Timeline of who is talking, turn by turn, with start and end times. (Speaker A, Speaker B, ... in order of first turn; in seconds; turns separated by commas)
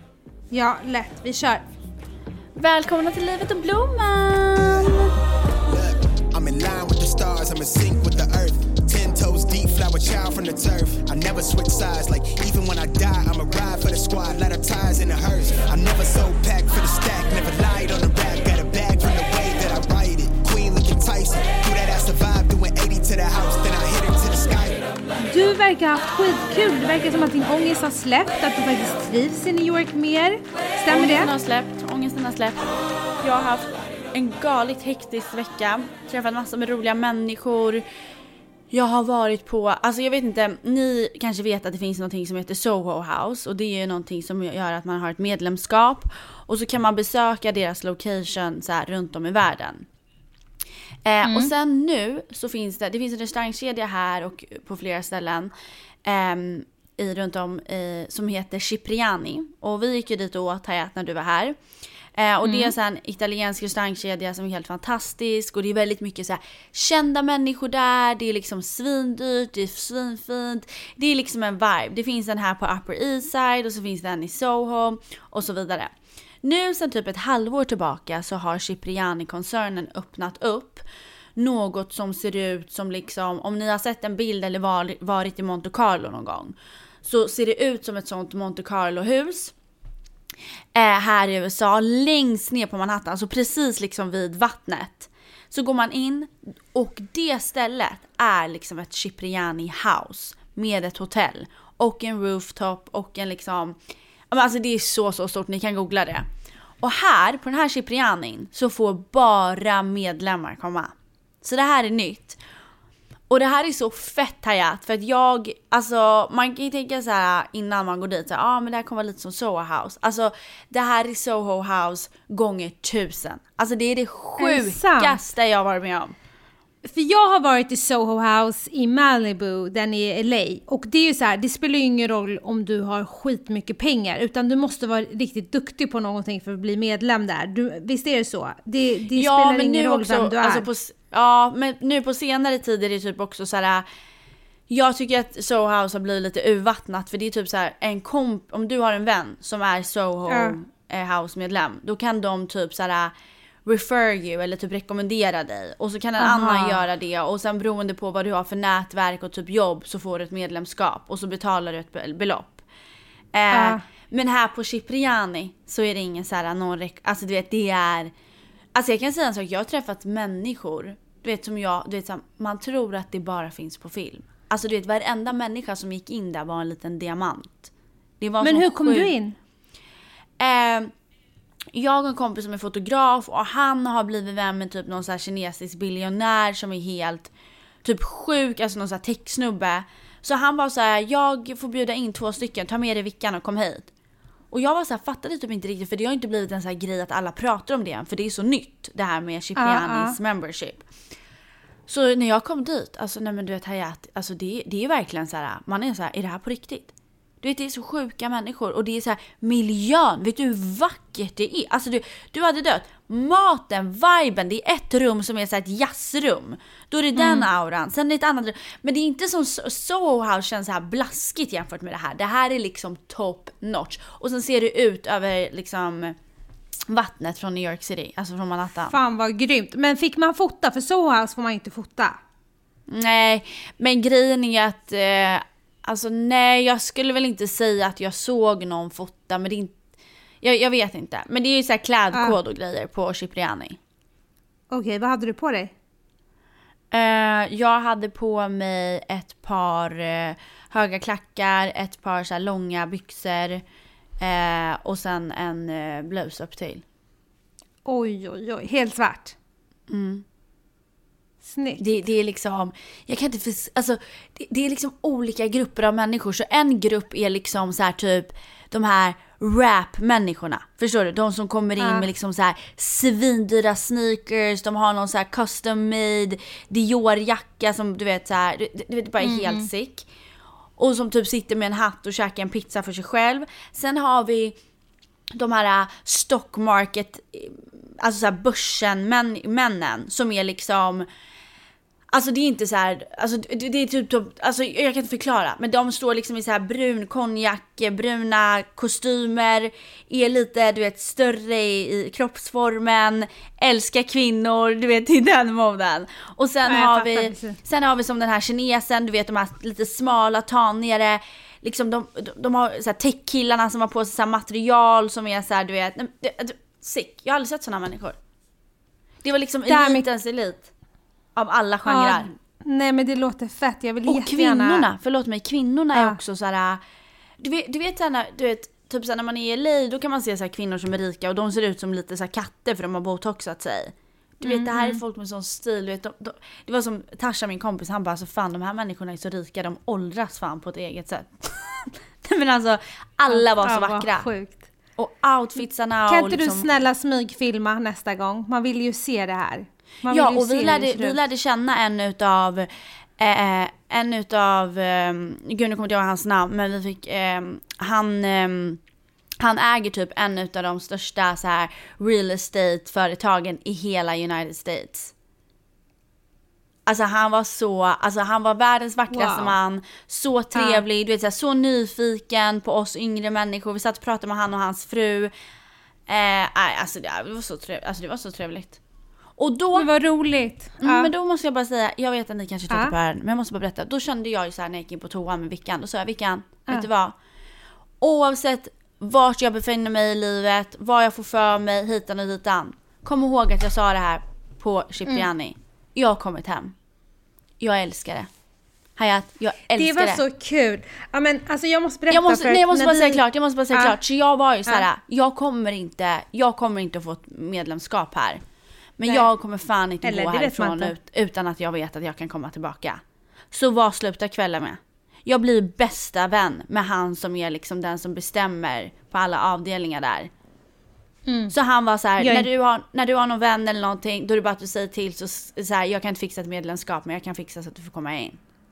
Speaker A: 0.5-1.6, Speaker B: 2.6-5.1, Speaker C: 5.7-24.8, Speaker A: 25.2-31.3, Speaker B: 30.9-32.7, Speaker B: 33.2-37.8, Speaker B: 38.7-49.9, Speaker B: 51.1-55.5, Speaker A: 51.2-51.5, Speaker B: 56.0-61.6, Speaker B: 62.2-75.9, Speaker A: 62.4-62.7, Speaker B: 76.4-80.8, Speaker B: 81.4-89.5, Speaker B: 90.8-103.8, Speaker B: 104.3-106.3, Speaker B: 106.8-112.4, Speaker B: 113.3-126.1, Speaker A: 124.4-125.2, Speaker A: 126.8-140.7, Speaker B: 139.2-143.9, Speaker B: 144.7-153.1, Speaker A: 150.3-150.6, Speaker B: 153.7-162.7, Speaker A: 156.2-156.8, Speaker B: 163.3-168.1, Speaker A: 163.5-163.8, Speaker B: 168.8-179.1, Speaker A: 178.4-179.4, Speaker B: 180.4-180.9, Speaker B: 181.7-187.3, Speaker B: 187.8-193.9, Speaker B: 194.5-200.8, Speaker A: 199.6-200.2, Speaker B: 201.9-226.2, Speaker A: 217.2-217.5, Speaker B: 226.9-229.0, Speaker A: 228.9-232.2, Speaker B: 232.9-239.8, Speaker B: 240.4-243.8, Speaker A: 244.7-245.7, Speaker B: 246.9-253.6, Speaker B: 254.2-256.8, Speaker A: 257.9-259.4, Speaker B: 259.9-260.2, Speaker A: 261.4-261.8, Speaker B: 261.8-280.1, Speaker A: 271.8-272.1, Speaker A: 279.2-279.7, Speaker B: 280.8-284.6, Speaker B: 285.3-291.1, Speaker B: 292.1-318.2, Speaker A: 306.7-307.6, Speaker B: 319.2-320.7, Speaker A: 319.7-320.1, Speaker B: 321.4-322.3, Speaker A: 321.9-324.9, Speaker B: 324.1-326.8, Speaker A: 325.9-326.2, Speaker B: 327.4-344.3, Speaker A: 334.4-335.0, Speaker A: 343.3-344.7, Speaker B: 345.0-346.7, Speaker A: 346.1-351.2, Speaker B: 350.1-358.8, Speaker B: 359.4-365.1, Speaker B: 366.9-375.3, Speaker A: 369.1-369.6, Speaker A: 370.5-370.8, Speaker B: 376.1-378.8, Speaker B: 379.4-379.9, Speaker A: 379.8-381.1, Speaker B: 380.8-387.1, Speaker A: 382.7-382.9, Speaker B: 388.0-396.8, Speaker B: 397.6-398.3, Speaker B: 399.0-400.2, Speaker A: 399.7-403.2, Speaker B: 402.1-408.4, Speaker B: 409.0-413.0, Speaker A: 410.0-410.9, Speaker B: 413.5-420.3, Speaker A: 421.3-421.5, Speaker B: 421.5-428.4, Speaker A: 422.2-422.5